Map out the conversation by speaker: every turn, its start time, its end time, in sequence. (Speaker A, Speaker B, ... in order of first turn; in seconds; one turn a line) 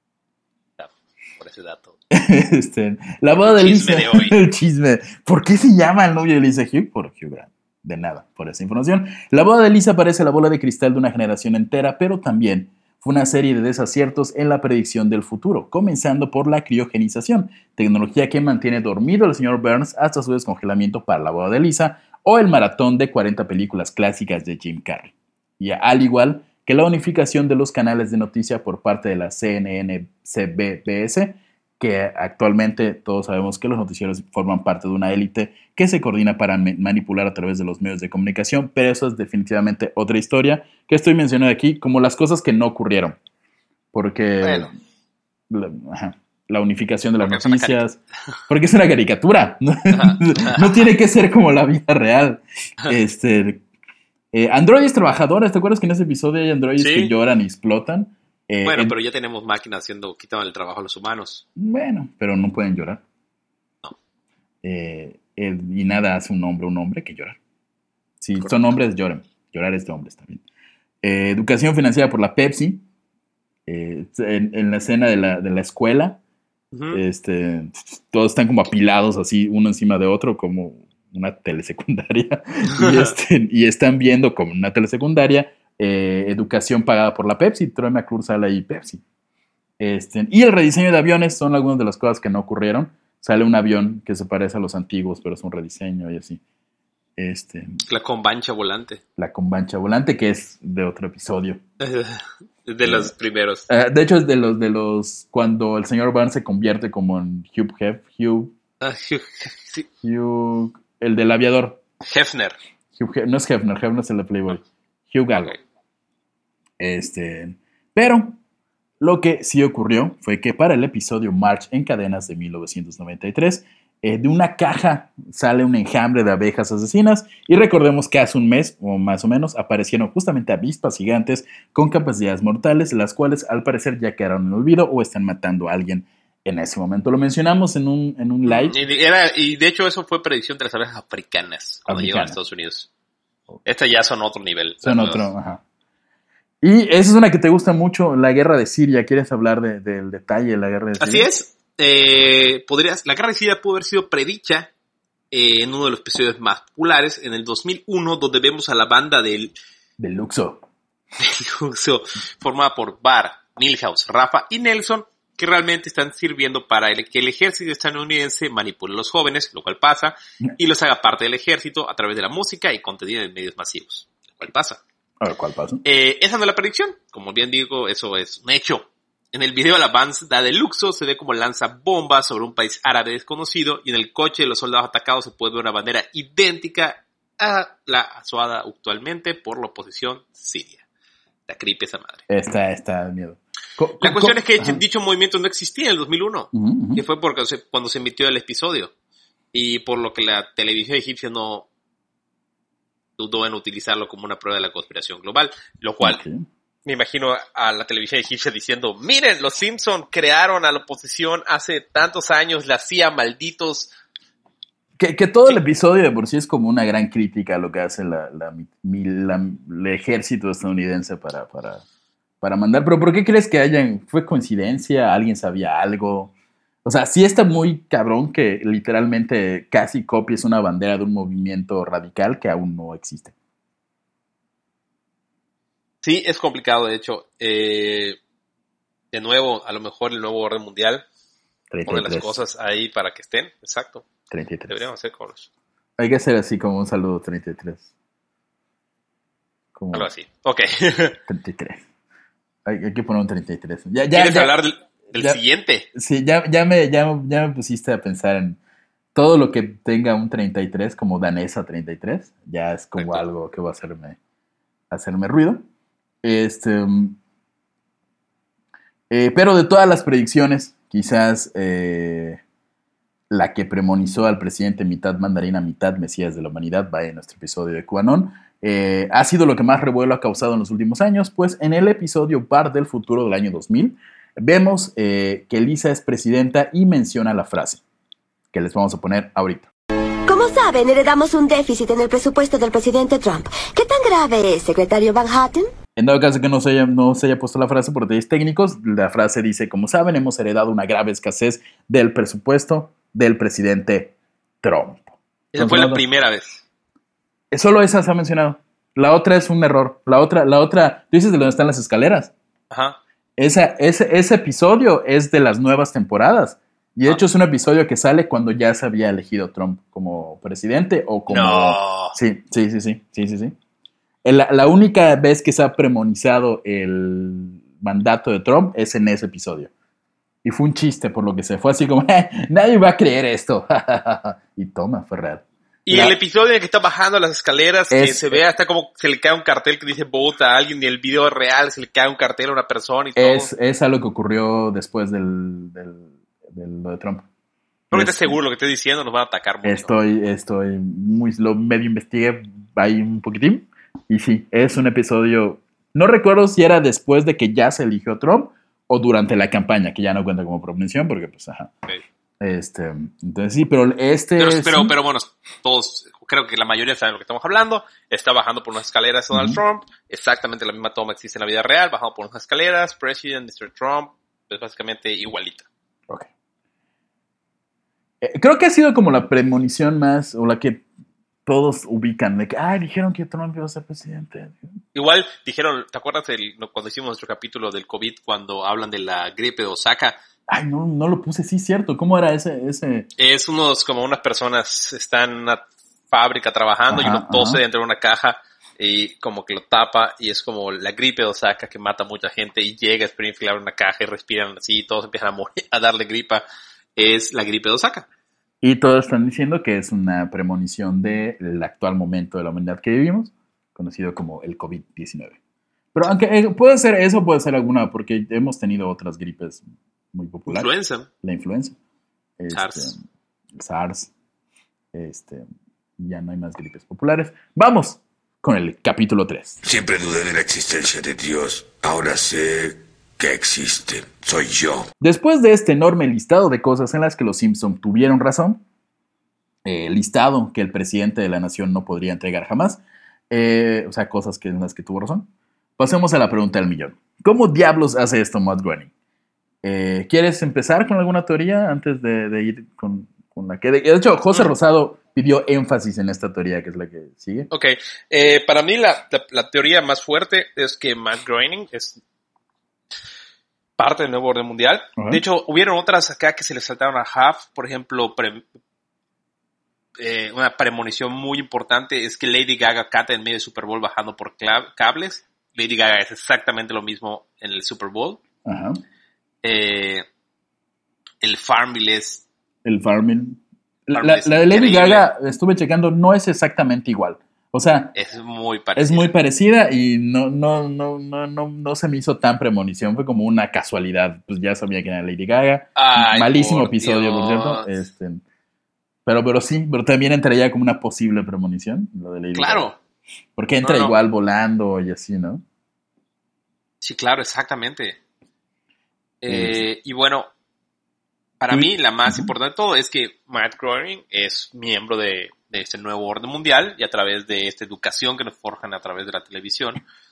Speaker A: 0.8-1.9
Speaker B: 2.1-43.2
Speaker A: 3.4-4.4
Speaker B: 43.9-44.7
Speaker A: 44.4-44.7
Speaker B: 45.5-53.6
Speaker A: 47.2-47.8
Speaker A: 49.9-50.9
Speaker B: 54.3-59.0
Speaker A: 56.8-57.1
Speaker A: 58.6-61.4
Speaker B: 61.5-63.0
Speaker B: 64.6-67.4
Speaker B: 68.2-70.4
Speaker B: 71.0-72.8
Speaker B: 73.7-76.2
Speaker A: 76.7-77.0
Speaker B: 76.9-89.0
Speaker A: 82.8-83.1
Speaker B: 89.8-96.4
Speaker B: 97.2-97.8
Speaker A: 97.8-99.0
Speaker B: 99.2-101.6
Speaker A: 101.8-103.7
Speaker B: 102.8-103.1
Speaker B: 103.7-108.5
Speaker A: 108.8-109.9
Speaker B: 110.0-111.8
Speaker A: 112.0-112.5
Speaker B: 112.9-115.5
Speaker A: 115.3-115.6
Speaker B: 116.8-118.4
Speaker B: 119.0-138.8
Speaker A: 138.5-142.9
Speaker B: 141.9-142.4
Speaker A: 143.6-145.3
Speaker B: 144.8-145.6
Speaker B: 146.6-151.3
Speaker A: 151.0-154.7
Speaker A: 155.3-159.5
Speaker B: 160.0-160.6
Speaker A: 161.2-174.8
Speaker B: 175.2-175.8
Speaker A: 175.8-190.8
Speaker A: 191.5-192.2
Speaker B: 192.3-194.8
Speaker A: 194.0-198.9
Speaker B: 196.5-197.0
Speaker A: 199.5-201.7
Speaker A: 203.2-206.2
Speaker B: 206.0-206.4
Speaker A: 206.8-213.9
Speaker B: 215.0-221.8
Speaker B: 222.4-226.3
Speaker B: 226.8-233.3
Speaker A: 236.0-238.2
Speaker A: 239.1-241.0
Speaker B: 241.7-242.4
Speaker A: 241.9-244.0
Speaker B: 244.3-244.8
Speaker A: 244.7-245.5
Speaker B: 246.0-247.9
Speaker B: 249.7-250.1
Speaker A: 249.9-251.2
Speaker B: 251.3-251.8
Speaker B: 252.6-254.6
Speaker A: 254.1-255.9
Speaker B: 255.1-255.4
Speaker B: 255.9-258.6
Speaker B: 259.1-264.2
Speaker A: 262.9-263.2
Speaker B: 264.9-265.6
Speaker B: 266.2-267.2
Speaker B: 269.1-272.4
Speaker B: 273.3-287.8
Speaker B: 288.5-289.7
Speaker C: 290.3-295.7
Speaker B: 295.9-306.0
Speaker A: 305.5-306.6
Speaker B: 307.5-312.3
Speaker A: 312.7-313.0
Speaker B: 313.4-323.5
Speaker A: 321.3-322.1
Speaker B: 324.2-329.7
Speaker B: 330.4-336.1
Speaker A: 335.9-343.5
Speaker B: 337.9-338.4
Speaker B: 343.1-347.3
Speaker B: 347.9-348.4
Speaker A: 347.9-349.9
Speaker B: 349.6-361.7
Speaker B: 362.4-364.9
Speaker A: 364.4-375.7
Speaker B: 369.3-369.6
Speaker B: 378.2-380.8
Speaker B: 381.4-384.8
Speaker A: 384.9-390.2
Speaker B: 390.5-393.1
Speaker A: 393.2-406.4
Speaker B: 396.9-397.6
Speaker A: 406.9-408.1
Speaker B: 408.6-415.4
Speaker B: 415.9-420.7
Speaker A: 420.5-421.1
Speaker B: 421.2-421.8
Speaker B: 422.4-423.0
Speaker A: 422.5-422.9
Speaker B: 423.6-424.1
Speaker B: 424.9-425.4
Speaker B: 426.0-429.6
Speaker D: 429.6-434.9
Speaker B: 435.0-438.6
Speaker B: 439.6-448.9
Speaker B: 449.6-457.5
Speaker A: 457.5-462.0
Speaker A: 463.8-468.4
Speaker B: 465.0-465.2
Speaker A: 470.0-478.2
Speaker B: 478.4-478.8
Speaker A: 479.4-480.0
Speaker A: 481.2-482.2
Speaker B: 482.6-487.9
Speaker A: 483.9-485.1
Speaker A: 487.9-489.1
Speaker B: 488.8-498.2
Speaker A: 495.8-497.7
Speaker B: 499.1-502.7
Speaker A: 502.3-502.8
Speaker B: 503.4-505.4
Speaker A: 503.6-504.0
Speaker A: 506.8-508.0
Speaker A: 509.2-510.3
Speaker B: 509.3-509.6
Speaker A: 511.4-519.8
Speaker B: 511.5-512.3